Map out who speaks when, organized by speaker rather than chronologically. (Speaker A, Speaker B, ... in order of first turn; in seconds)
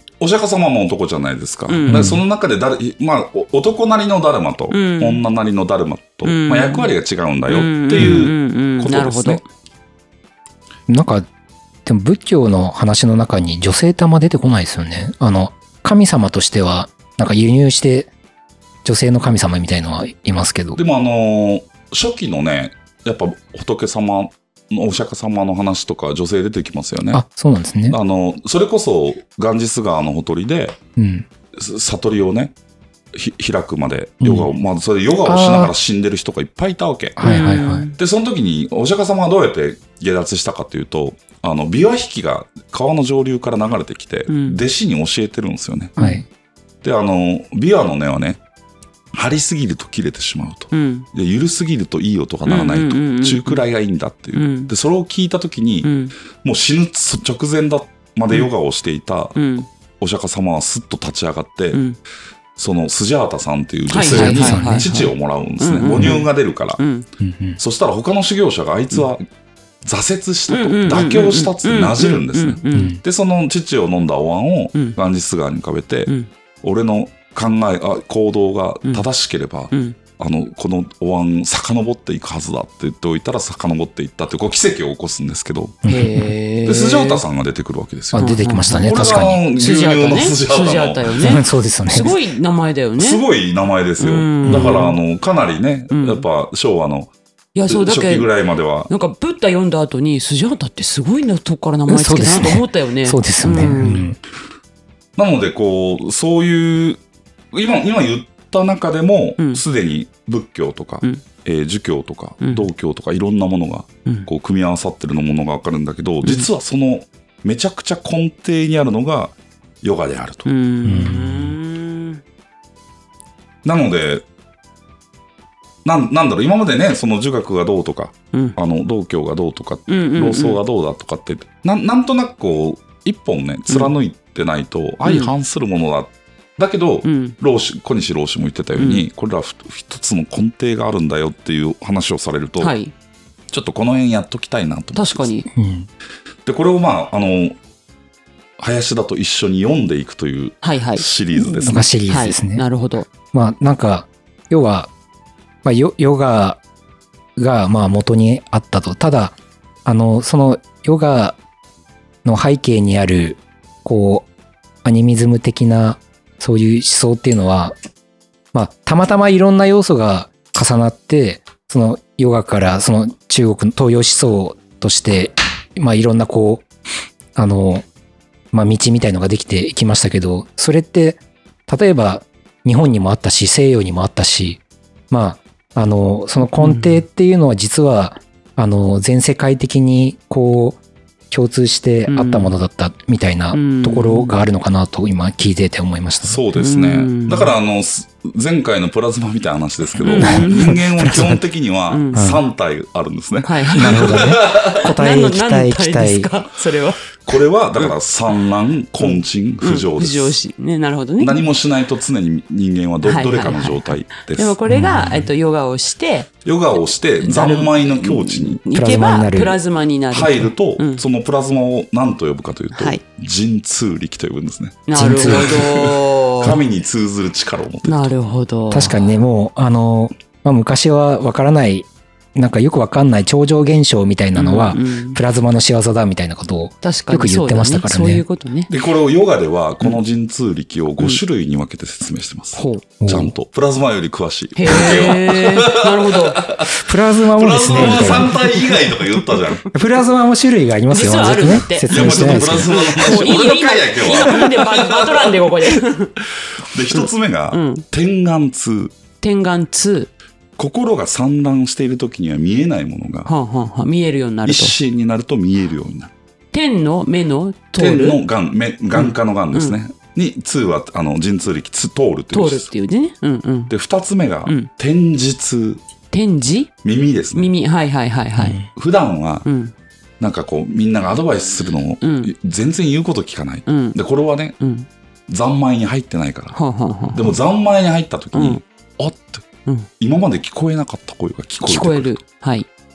Speaker A: 0.2-9.4, 20.7-27.2, 27.9-30.8, 31.6-32.5, 33.1-37.3, 37.9-46.0, 46.8-48.4, 49.1-59.4, 60.0-61.8, 62.6-66.8, 67.6-69.2, 69.8-85.8, 86.6-91.1, 93.0-97.1, 97.7-98.9, 105.2-107.0, 107.5-120.5, 123.6-124.2, 125.8-142.7, 143.5-145.3, 146.4-147.6, 148.6-151.9, 196.2-204.9, 207.2-210.4, 211.2-214.5, 216.4-218.6, 220.1-228.1, 238.7-249.6, 251.8-255.4, 256.7-258.9, 260.6-263.3, 264.4-266.1, 267.8-272.7, 273.7-275.8, 276.8-277.5, 278.7-279.4, 280.2-284.6, 285.3-286.6, 287.1-289.4, 290.0-292.1
Speaker B: 1.7-2.2, 4.7-5.2, 6.2-6.9, 7.5-9.4, 37.2-38.0, 44.3-44.6, 46.0-46.2, 50.7-51.1, 52.5-53.6, 54.4-54.7, 55.8-56.1, 59.4-59.7, 63.9-67.1, 70.5-73.0, 79.7-80.0, 85.9-87.2, 88.2-93.2, 94.0-95.0, 95.9-96.2, 97.5-98.3, 98.9-104.1, 112.4-112.7, 116.2-116.5, 120.4-122.2, 129.9-130.6, 135.0-135.3, 137.0-137.4, 138.8-139.0, 142.6-142.9, 144.9-145.5, 150.6-151.0, 152.1-153.1, 186.6-187.0, 192.1-192.5, 193.5-194.4, 196.5-197.5, 200.0-200.8, 201.9-202.2, 203.4-207.2, 209.0-211.4, 213.0-221.0, 222.7-223.0, 224.9-226.6, 227.8-229.1, 234.3-235.2, 236.8-238.7, 242.6-242.9, 244.6-246.4, 247.7-249.6, 250.9-256.1, 256.9-257.9, 259.2-260.1, 263.2-264.7, 266.5-268.2, 268.9-269.8, 272.3-273.7, 276.1-276.7, 277.3-278.6, 279.4-279.7, 282.0-282.3, 283.7-284.0, 284.6-284.9, 286.5-287.4, 288.3-288.6, 291.6-292.7
Speaker C: 1.9-2.2, 8.0-8.3, 10.9-11.3, 11.8-18.1, 18.9-20.8, 27.1-28.0, 30.9-31.2, 34.2-34.5, 35.2-35.7, 37.2-37.9, 46.0-46.2, 64.0-64.9, 67.2-67.6, 72.7-73.0, 85.8-86.3, 88.1-89.4, 91.2-92.1, 94.4-94.8, 101.9-104.2, 120.8-121.5, 145.5-145.9, 151.3-152.6, 153.3-154.9, 155.6-156.6, 157.4-161.4, 162.2-164.3, 164.8-167.7, 168.5-176.7, 177.3-177.9, 178.5-196.4, 200.2-201.4, 202.1-202.4, 203.8-206.3, 214.7-215.3, 218.7-219.6, 224.9-225.6, 228.7-238.2, 243.0-243.3, 246.7-248.7, 249.7-253.1